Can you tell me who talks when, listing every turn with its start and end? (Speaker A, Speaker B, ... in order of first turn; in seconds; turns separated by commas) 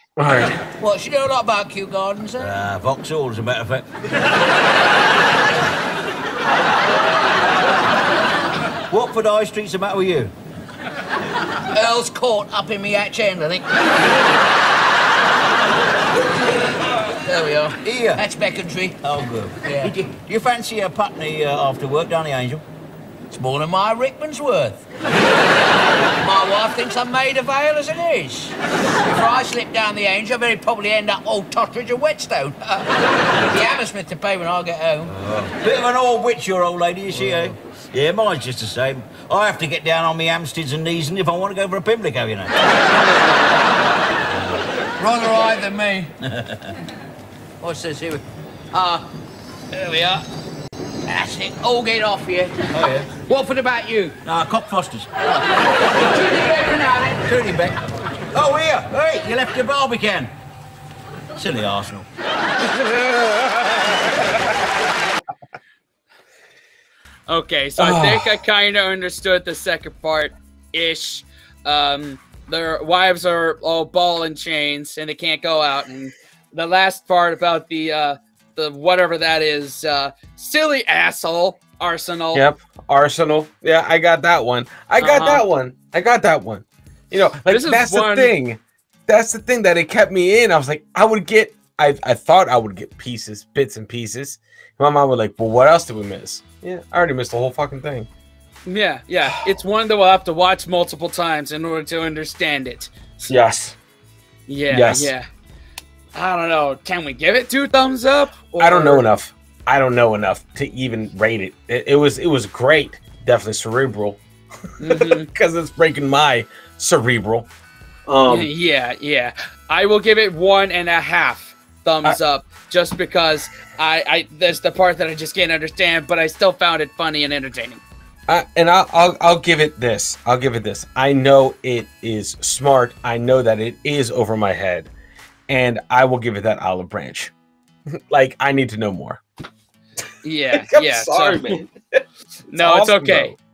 Speaker A: 0.2-0.6, Speaker B: 0.7-2.5, Speaker C: 2.4-4.0, Speaker C: 8.9-10.3, Speaker B: 11.7-13.7, Speaker B: 17.2-18.9, Speaker C: 17.8-18.2, Speaker C: 19.0-22.6, Speaker B: 19.6-19.9, Speaker B: 23.3-24.8, Speaker B: 26.2-35.1, Speaker C: 35.0-42.6, Speaker C: 44.3-44.7, Speaker B: 45.0-46.1, Speaker C: 46.2-46.7, Speaker B: 47.6-49.1, Speaker D: 49.7-50.2, Speaker B: 51.0-52.6, Speaker C: 52.7-53.1, Speaker B: 53.2-54.1, Speaker C: 54.2-55.3, Speaker B: 55.4-57.8, Speaker C: 58.3-60.3, Speaker C: 61.3-62.0, Speaker D: 67.3-82.4, Speaker A: 67.8-68.4, Speaker A: 82.3-98.1, Speaker D: 85.0-85.5, Speaker D: 87.5-88.3, Speaker D: 98.7-103.3, Speaker A: 99.2-99.5, Speaker A: 103.3-103.8, Speaker D: 104.5-105.3, Speaker A: 104.7-105.1, Speaker D: 106.1-109.1, Speaker A: 108.5-117.5, Speaker D: 114.8-115.3, Speaker A: 118.0-118.5, Speaker D: 118.2-127.8, Speaker A: 128.3-134.9, Speaker A: 135.5-137.3, Speaker A: 138.1-139.2, Speaker D: 140.2-141.6, Speaker A: 140.5-142.0, Speaker D: 142.5-143.3, Speaker A: 142.6-143.4